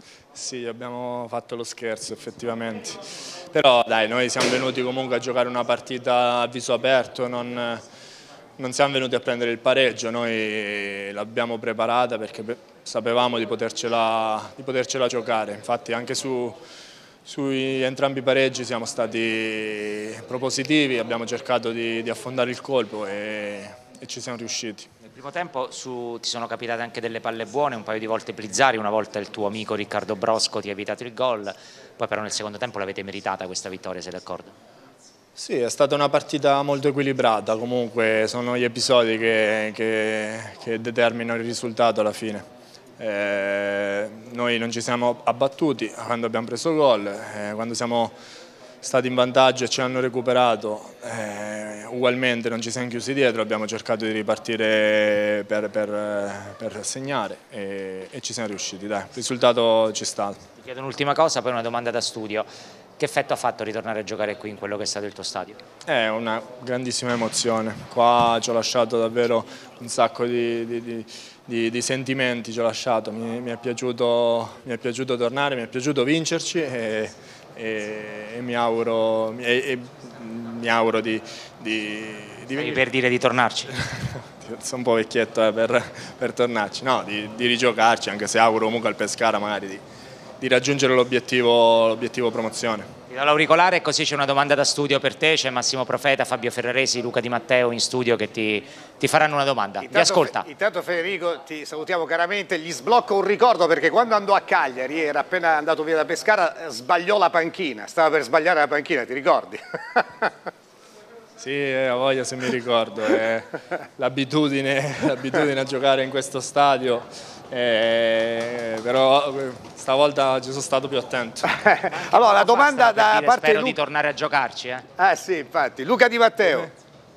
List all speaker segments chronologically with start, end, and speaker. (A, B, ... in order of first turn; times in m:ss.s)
0:00.3-0:03.0 A
0:03.5-0:07.8 A
0:08.6-0:16.6 A
0:17.3-0:24.9 A
0:25.0-0:34.5 B
0:35.4-0:42.4 A
0:43.0-0:48.2 A
0:48.8-1:00.4 A
1:00.6-1:05.6 B
1:05.9-1:22.8 A
1:22.6-1:23.8 B
1:23.9-1:29.8 A
1:30.4-1:32.9 A
1:33.1-1:40.5 B
1:39.8-1:50.3 C
1:51.4-2:01.5 A
2:01.6-2:03.8 C
2:01.9-2:04.9 B
2:05.0-2:06.7 C